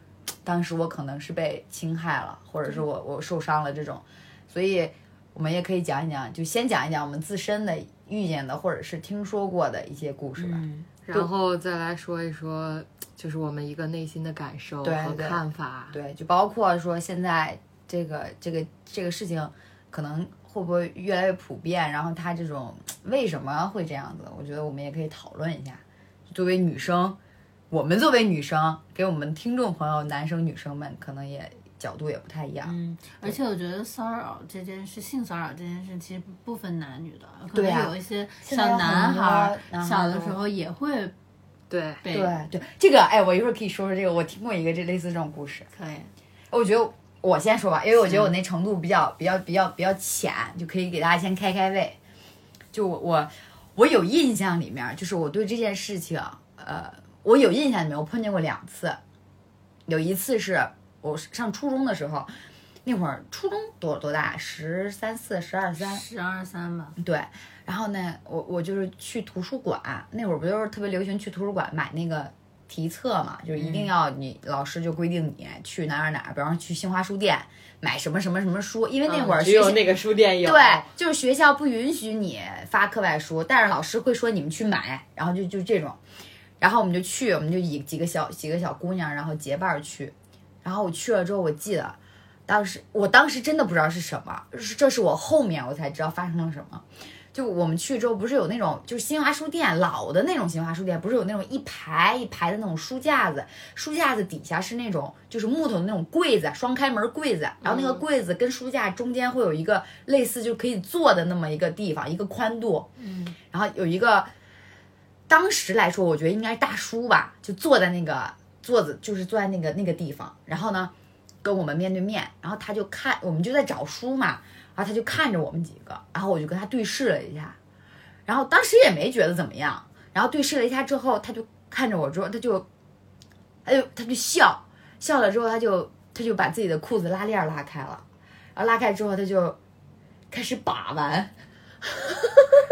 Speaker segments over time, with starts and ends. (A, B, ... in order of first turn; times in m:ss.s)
0:00.4-0:11.3 A
0:10.4-0:10.9 B
0:11.1-0:16.0 C
0:14.8-0:27.2 A
0:27.7-0:33.4 A
0:32.6-0:41.1 B
0:37.5-0:40.3 A
0:41.7-0:42.0 C
0:42.0-0:42.4 B
0:42.1-0:45.7 A
0:45.7-0:46.1 B
0:46.5-0:52.0 A
0:52.7-0:59.0 A
0:59.9-1:02.3 A
1:02.8-1:06.0 A
1:05.8-1:07.0 B
1:07.0-1:26.0 A
1:19.1-1:20.8 C
1:26.6-1:52.9 A
1:47.6-1:48.0 C
1:53.0-1:53.3 B
1:53.5-1:54.3 A
1:55.3-2:00.9 A
2:01.4-2:07.6 A
2:08.3-2:12.7 A
2:13.6-2:18.0 A
2:18.6-2:19.6 A
2:20.3-2:21.3 A
2:22.1-2:22.4 A